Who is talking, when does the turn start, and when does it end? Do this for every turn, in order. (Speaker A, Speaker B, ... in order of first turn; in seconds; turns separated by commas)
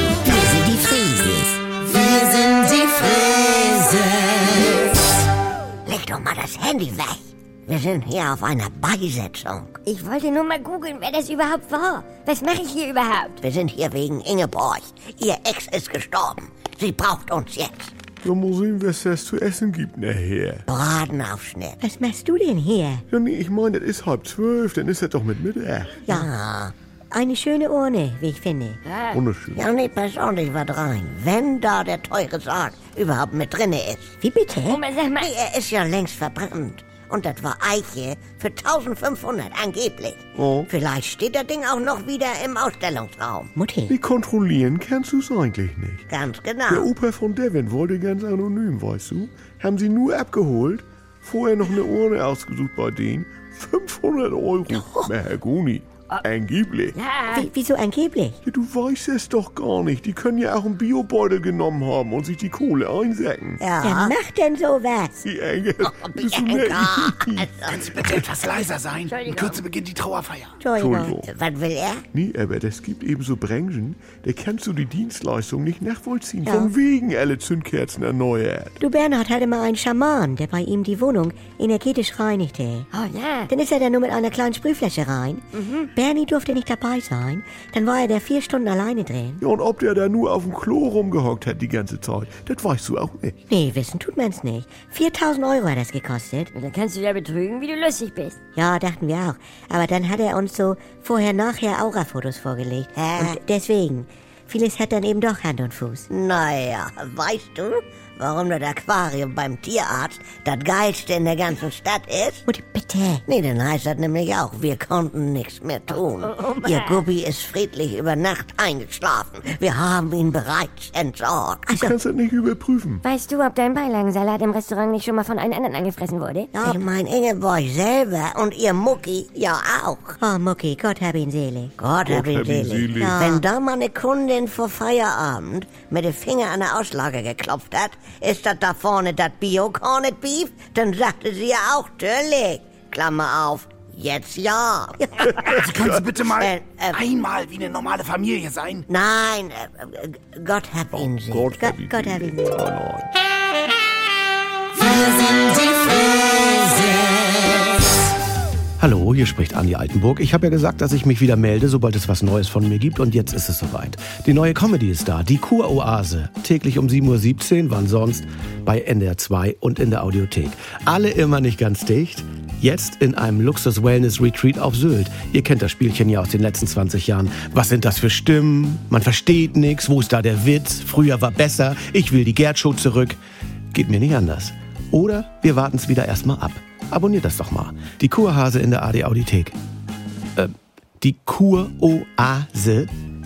Speaker A: 0.2-1.6, Speaker A: 2.2-4.8, Speaker A: 5.8-9.8, Speaker B: 9.8-13.4, Speaker A: 13.4-17.9, Speaker C: 18.2-20.7, Speaker A: 20.7-21.8, Speaker D: 21.8-23.0, Speaker C: 23.1-26.1, Speaker A: 26.1-26.7, Speaker D: 27.1-28.8, Speaker B: 28.9-29.2, Speaker C: 29.1-29.7, Speaker A: 29.5-34.2, Speaker D: 34.2-34.8, Speaker B: 34.7-35.3, Speaker A: 35.1-43.5, Speaker C: 40.4-40.7, Speaker D: 43.5-44.0, Speaker C: 43.9-46.0, Speaker A: 46.1-46.9, Speaker C: 46.7-57.0, Speaker A: 54.7-55.0, Speaker B: 56.9-57.5, Speaker D: 57.3-58.4, Speaker C: 58.4-63.6, Speaker A: 63.6-64.2, Speaker D: 63.8-65.2, Speaker C: 65.2-68.3, Speaker A: 65.8-67.9, Speaker E: 67.8-70.5, Speaker B: 69.1-69.7, Speaker D: 70.6-71.2, Speaker C: 70.8-71.3, Speaker A: 71.2-72.0, Speaker C: 72.1-78.8, Speaker D: 76.5-76.7, Speaker D: 78.8-82.9, Speaker B: 82.9-83.5, Speaker D: 83.5-89.4, Speaker B: 85.5-85.9, Speaker C: 89.4-93.4, Speaker D: 93.5-96.5, Speaker B: 96.5-98.4, Speaker D: 98.5-106.1, Speaker A: 102.9-103.4, Speaker A: 106.1-112.4, Speaker D: 112.5-113.2, Speaker A: 113.2-121.9, Speaker B: 116.2-117.0, Speaker C: 121.7-123.0, Speaker B: 123.0-126.7, Speaker A: 126.5-130.2, Speaker D: 130.2-131.7, Speaker A: 131.8-147.1, Speaker C: 132.0-133.4, Speaker D: 133.0-133.4, Speaker C: 145.2-146.2, Speaker E: 146.1-148.8, Speaker A: 148.9-151.5, Speaker C: 150.9-153.1, Speaker D: 151.6-152.4, Speaker F: 158.8-183.2, Speaker F: 183.7-189.6, Speaker F: 190.4-192.9